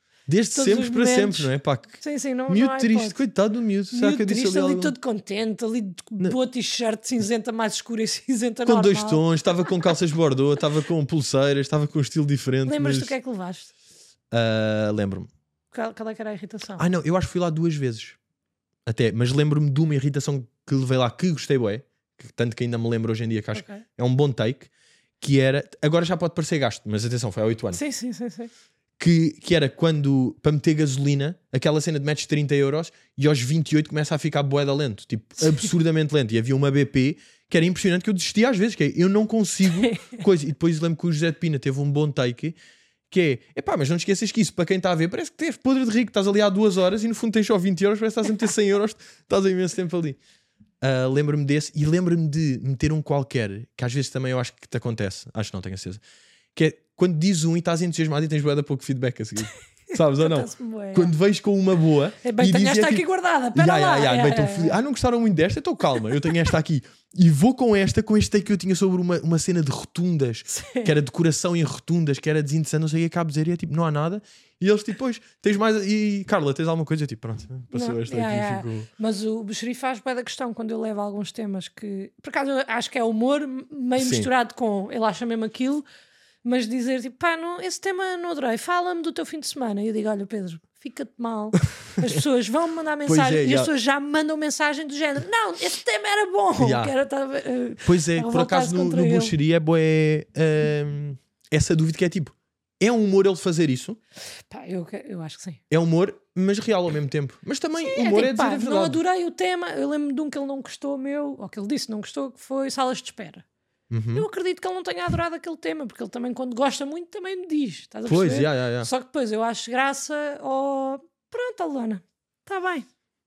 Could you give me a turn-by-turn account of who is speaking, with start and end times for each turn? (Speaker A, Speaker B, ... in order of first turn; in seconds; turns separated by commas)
Speaker A: 0.3-4.9, Speaker B: 0.5-3.2, Speaker B: 3.9-9.2, Speaker A: 8.6-13.1, Speaker B: 12.7-13.7, Speaker A: 14.3-15.3, Speaker B: 15.7-16.8, Speaker A: 16.8-18.2, Speaker A: 18.9-27.8, Speaker B: 23.5-23.8, Speaker B: 27.7-28.5, Speaker A: 29.0-42.6, Speaker B: 39.8-40.2, Speaker A: 43.1-50.2, Speaker A: 50.8-56.0, Speaker A: 56.5-78.9, Speaker B: 59.9-61.1, Speaker B: 62.2-64.8, Speaker B: 70.5-70.9, Speaker B: 77.7-85.8, Speaker A: 84.0-84.3, Speaker B: 86.4-99.3, Speaker A: 93.0-93.7, Speaker A: 96.6-96.9, Speaker A: 97.8-104.0, Speaker B: 104.5-105.6, Speaker A: 105.7-109.0, Speaker B: 107.8-113.4, Speaker A: 113.9-114.3, Speaker B: 114.1-122.9, Speaker A: 118.0-118.9